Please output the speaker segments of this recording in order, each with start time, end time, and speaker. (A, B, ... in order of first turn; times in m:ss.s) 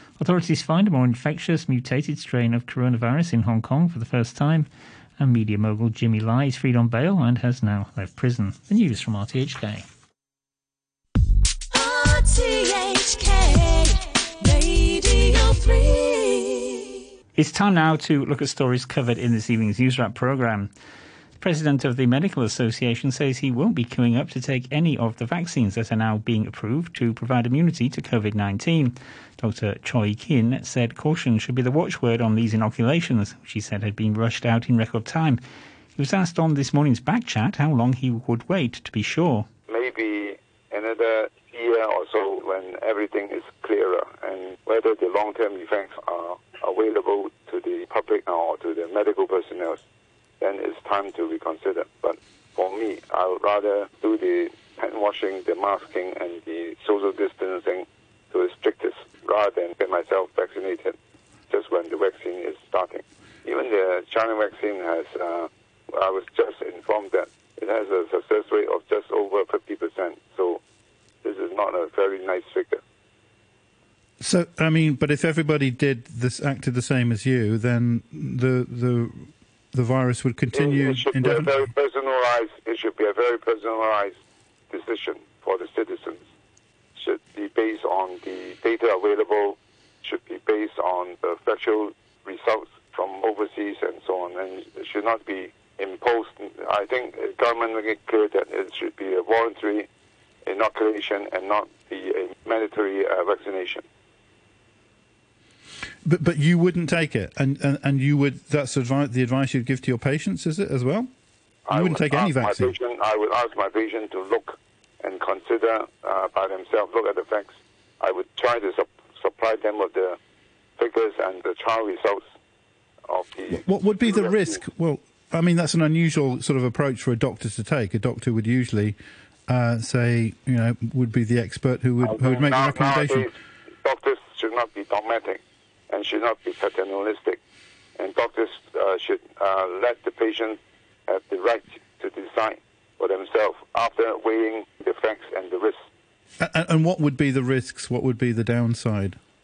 0:00.2-0:09.9 A
0:11.7-0:16.9 B
0:17.4-0:20.7 A
0:21.4-0:35.4 A
0:36.0-0:39.5 A
0:39.7-0:49.8 C
0:50.4-1:00.9 C
1:01.5-1:10.6 C
1:11.2-1:12.8 C
1:14.2-1:21.6 D
1:20.5-1:24.1 C
1:24.7-1:26.2 C
1:27.0-1:39.9 C
1:40.4-1:43.8 C
1:46.0-1:51.1 D
1:51.7-2:00.2 C
1:51.7-1:52.7 D
2:00.8-2:02.2 C
2:03.1-2:04.6 C
2:03.5-2:09.0 D
2:09.5-2:13.3 D
2:12.0-2:13.3 C
2:13.8-2:17.4 C
2:18.0-2:25.8 C
2:26.4-2:29.2 D